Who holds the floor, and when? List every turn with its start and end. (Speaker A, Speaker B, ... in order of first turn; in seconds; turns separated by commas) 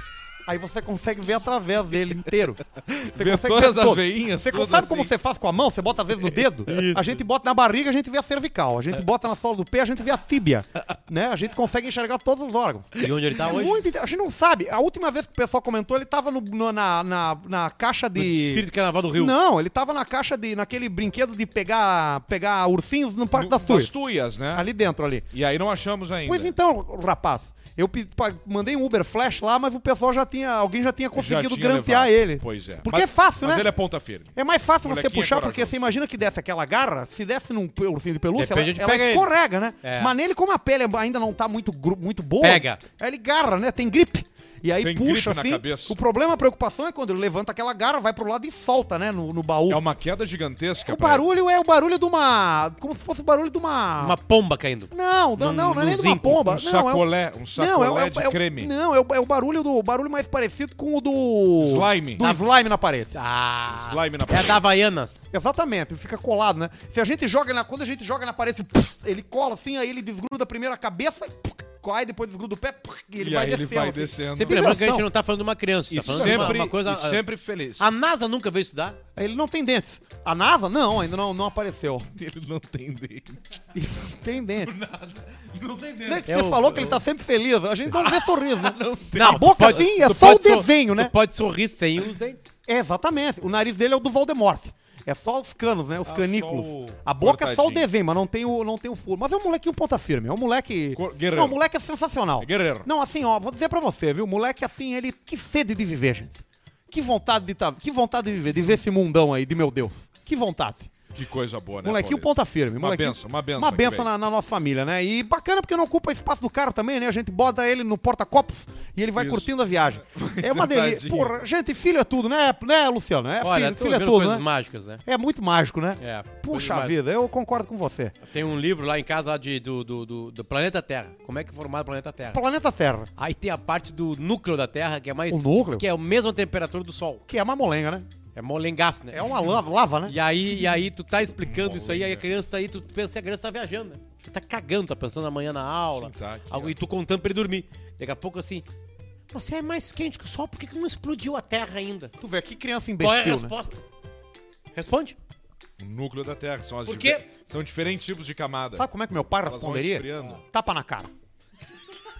Speaker A: 0.4-23.9, Speaker B: 2.9-5.1, Speaker C: 6.7-7.2, Speaker C: 13.0-13.8, Speaker C: 18.1-19.3, Speaker B: 23.3-24.6, Speaker A: 24.5-25.3, Speaker B: 25.3-26.5, Speaker A: 26.2-33.7, Speaker B: 31.1-35.9, Speaker A: 34.3-49.8, Speaker C: 38.3-39.3, Speaker C: 39.8-40.1, Speaker C: 42.4-42.8, Speaker B: 44.8-46.0, Speaker B: 49.7-51.2, Speaker A: 50.8-54.2, Speaker C: 54.0-56.4, Speaker A: 54.9-63.1, Speaker B: 56.2-58.7, Speaker B: 61.6-62.2, Speaker C: 63.1-65.3, Speaker B: 63.7-64.6, Speaker A: 65.3-75.1, Speaker B: 73.2-74.8, Speaker C: 74.3-77.2, Speaker B: 75.9-77.9, Speaker A: 76.0-76.7, Speaker C: 77.8-79.0, Speaker A: 79.2-82.1, Speaker B: 82.2-83.5, Speaker A: 83.7-84.7, Speaker B: 84.6-86.3, Speaker A: 86.1-91.1, Speaker C: 86.1-87.0, Speaker B: 87.9-89.9, Speaker C: 89.1-92.5, Speaker A: 92.7-110.9, Speaker B: 96.0-97.9, Speaker B: 100.9-101.6, Speaker B: 102.4-102.9, Speaker B: 111.1-114.1, Speaker A: 111.8-124.5, Speaker B: 119.2-121.4, Speaker C: 123.4-125.0, Speaker A: 125.0-128.1, Speaker C: 126.0-127.0, Speaker C: 128.2-132.4, Speaker A: 132.3-133.1, Speaker C: 133.2-137.2, Speaker A: 135.3-135.8, Speaker A: 137.3-138.1, Speaker C: 138.3-139.2, Speaker A: 139.1-140.2, Speaker C: 140.1-148.7, Speaker B: 141.4-142.2, Speaker B: 145.9-146.8, Speaker C: 149.3-152.1, Speaker A: 152.2-153.5, Speaker C: 153.0-153.8, Speaker C: 154.7-155.2, Speaker B: 155.8-158.9, Speaker C: 156.8-157.2, Speaker A: 158.8-161.1, Speaker B: 159.4-160.4